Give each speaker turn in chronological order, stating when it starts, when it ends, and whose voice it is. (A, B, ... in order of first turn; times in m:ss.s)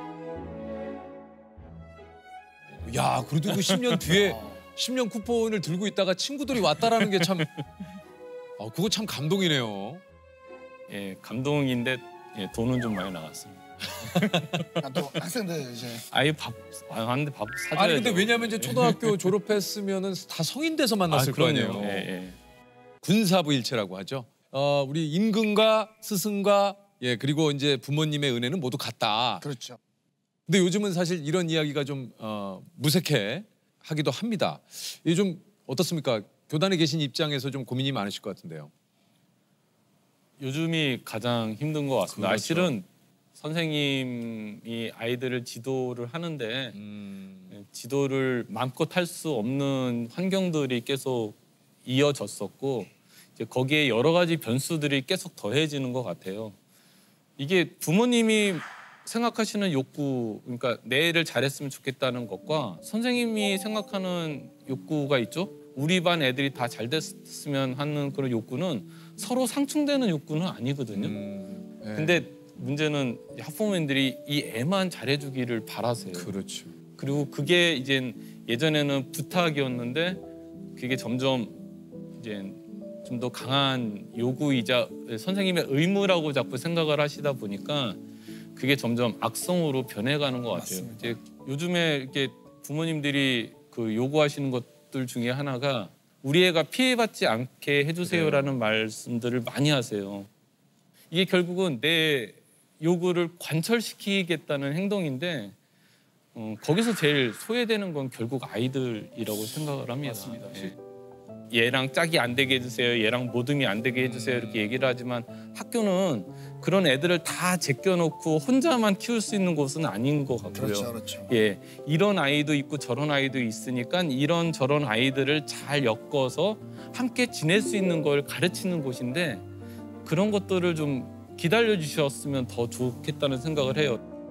0:02.8-0:07.5 A
0:03.5-0:04.2 B
0:06.8-0:07.6 B
0:08.6-0:10.0 A
0:10.9-0:14.7 B
0:14.8-0:16.0 C
0:16.1-0:19.3 B
0:17.7-0:22.1 A
0:21.1-0:22.4 B
0:23.0-0:29.4 A
0:29.4-0:29.8 C
0:30.5-0:38.7 A
0:40.4-0:46.8 B
0:42.1-0:42.8 A
0:46.7-0:47.5 A
0:47.5-0:56.6 B
0:57.4-1:11.2 B
1:10.9-1:12.2 A
1:11.9-1:16.3 B
1:16.1-1:16.7 A
1:17.0-1:20.2 B
1:20.8-1:21.6 B
1:22.2-1:28.0 B
1:28.6-1:40.3 B
1:30.6-1:31.0 A
1:38.0-1:38.6 A
1:41.1-1:45.5 B
1:46.3-1:50.7 B
1:51.5-2:09.4 B
1:53.9-1:54.7 A
2:00.5-2:01.3 C
2:10.0-2:14.0 B